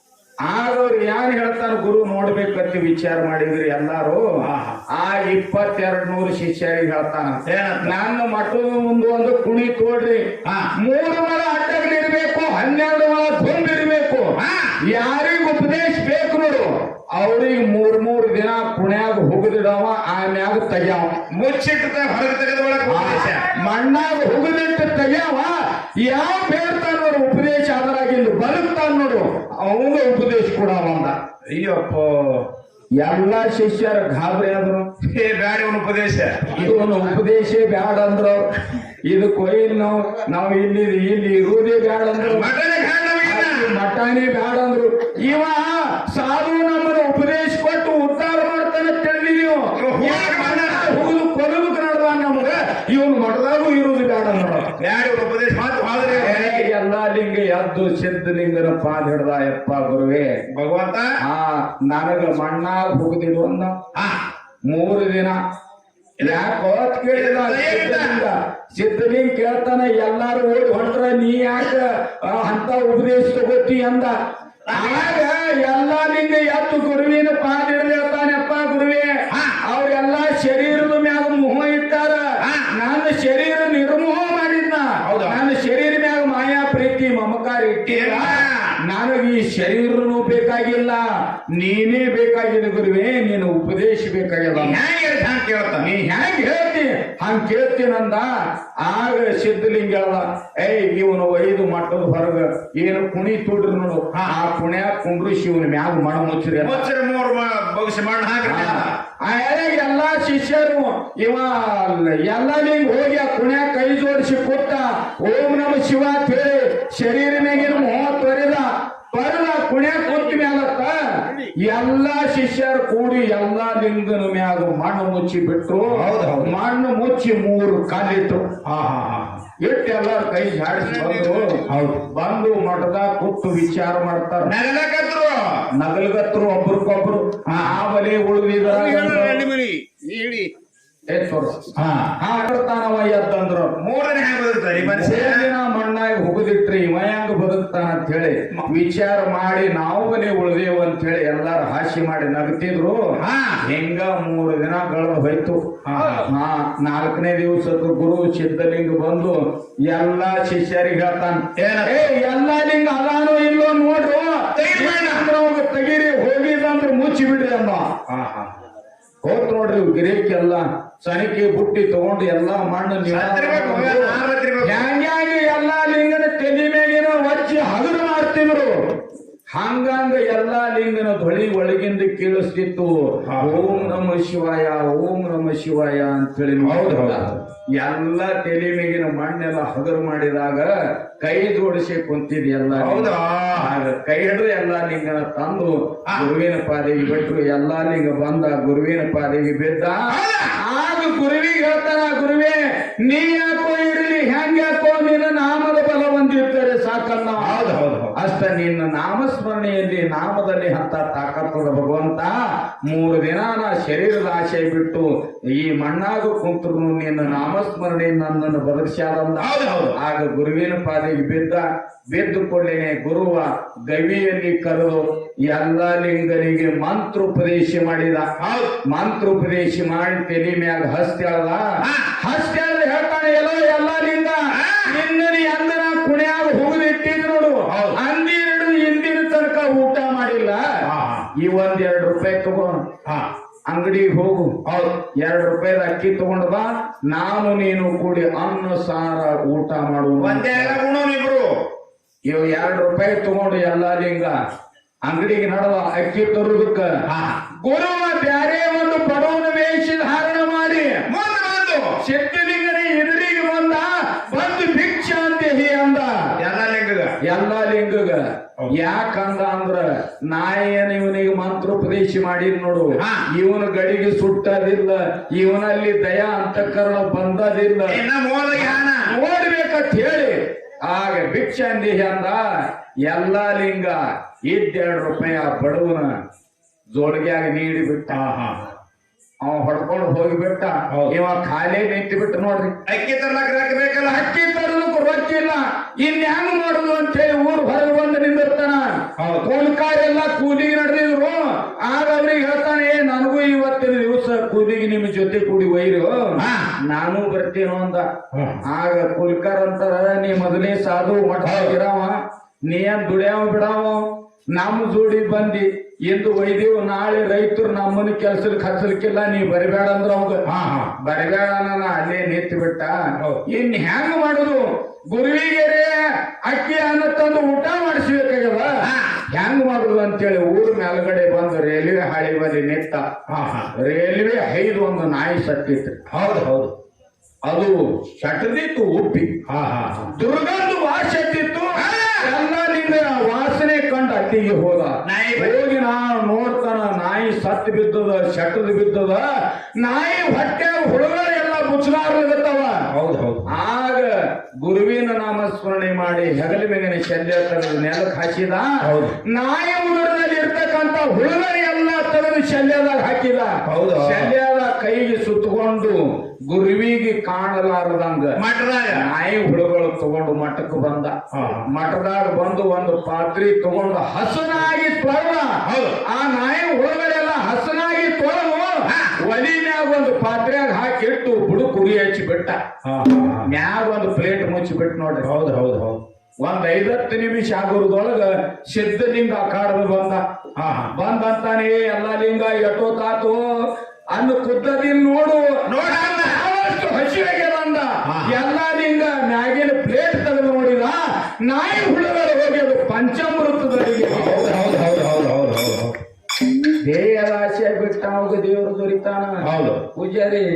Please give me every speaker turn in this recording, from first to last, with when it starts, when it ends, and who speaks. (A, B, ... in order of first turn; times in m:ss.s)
0:00.4-0:04.3 A
0:04.4-0:04.8 B
0:04.9-0:21.2 A
0:07.4-0:07.9 B
0:10.4-0:10.7 B
0:14.4-0:14.8 B
0:21.3-0:23.5 B
0:22.8-0:31.1 A
0:31.5-0:32.5 B
0:33.0-0:34.9 A
0:35.0-0:36.8 B
0:36.5-0:38.4 A
0:39.0-0:42.5 A
0:42.2-0:43.7 B
0:43.2-0:54.8 A
0:49.8-0:51.0 B
0:54.7-0:56.7 B
0:56.0-1:00.3 A
1:00.5-1:01.2 B
1:01.2-1:03.8 A
1:03.9-1:04.2 B
1:04.7-1:05.4 A
1:06.2-1:14.1 A
1:07.1-1:08.2 B
1:14.7-1:15.2 B
1:14.7-1:31.0 A
1:19.3-1:19.6 B
1:22.4-1:22.7 B
1:25.0-1:25.4 B
1:27.8-1:28.7 B
1:31.6-1:34.8 A
1:34.5-1:35.9 B
1:35.8-1:46.8 A
1:46.6-1:49.0 B
1:48.4-2:08.5 A
2:05.9-2:06.5 B
2:08.6-2:09.4 B
2:09.6-2:14.5 A
2:11.6-2:12.0 B
2:14.4-2:15.7 B
2:15.7-2:19.4 A
2:17.4-2:17.8 B
2:18.7-2:20.5 B
2:21.1-2:23.8 A
2:21.8-2:22.1 B
2:23.8-2:25.5 B
2:24.8-2:35.6 A
2:33.2-2:33.6 B
2:35.8-2:36.3 B
2:36.2-2:47.9 A
2:41.6-2:42.1 B
2:44.5-2:45.3 B
2:48.1-2:48.5 B
2:49.2-2:58.7 A
2:53.0-2:54.8 B
2:59.5-3:27.6 A
3:03.2-3:04.0 B
3:06.6-3:07.4 B
3:12.7-3:13.8 B
3:20.1-3:20.5 B
3:27.4-3:28.1 B
3:28.1-3:32.3 A
3:32.8-3:48.3 A
3:39.4-3:40.0 B
3:48.4-3:48.8 B
3:48.8-3:51.6 A
3:51.8-3:52.1 B
3:52.1-4:00.6 A
3:54.5-3:55.0 B
3:57.7-3:58.0 B
4:00.8-4:01.3 B
4:01.4-4:02.8 A
4:03.0-4:03.3 B
4:03.7-4:04.6 A
4:04.6-4:05.0 B
4:05.2-4:10.8 A
4:10.2-4:11.5 B
4:12.2-4:14.3 A
4:15.0-4:16.9 A
4:17.1-4:17.4 B
4:17.6-4:21.0 A
4:21.1-4:22.0 B
4:22.0-4:26.3 A
4:26.4-4:27.2 B
4:27.2-4:38.0 A
4:33.0-4:33.2 B
4:37.9-4:39.1 B
4:38.5-4:42.4 A
4:43.0-4:46.1 A
4:46.9-4:48.2 A
4:48.1-4:48.7 B
4:49.4-4:52.8 A
4:52.8-4:54.3 B
4:54.0-5:08.1 A
4:59.2-4:59.4 B
5:06.4-5:06.7 B
5:08.3-5:08.6 B
5:08.6-5:14.0 A
5:11.4-5:11.7 B
5:14.5-5:20.4 A
5:20.4-5:20.9 B
5:21.0-5:33.0 A
5:28.8-5:29.2 B
5:33.3-5:33.7 B
5:33.8-5:36.0 A
5:36.1-5:36.7 B
5:37.4-5:39.4 A
5:39.5-5:40.1 B
5:40.1-5:49.2 A
5:41.7-5:42.3 B
5:45.0-5:45.6 B
5:49.8-5:52.9 A
5:52.9-5:53.5 B
5:53.5-6:08.4 A
5:58.8-5:59.1 B
6:03.6-6:04.3 B
6:08.4-6:09.1 B
6:08.9-6:22.6 A
6:11.3-6:11.7 B
6:15.6-6:16.0 B
6:18.9-6:19.1 B
6:22.8-6:23.5 B
6:23.4-6:25.3 A
6:25.2-6:26.0 B
6:26.4-6:30.2 A
6:30.6-6:30.9 B
6:30.9-6:33.4 A
6:34.1-6:44.5 A
6:35.7-6:36.4 B
6:38.0-6:38.4 B
6:44.1-6:46.0 B
6:46.8-6:50.5 A
6:49.4-6:49.8 B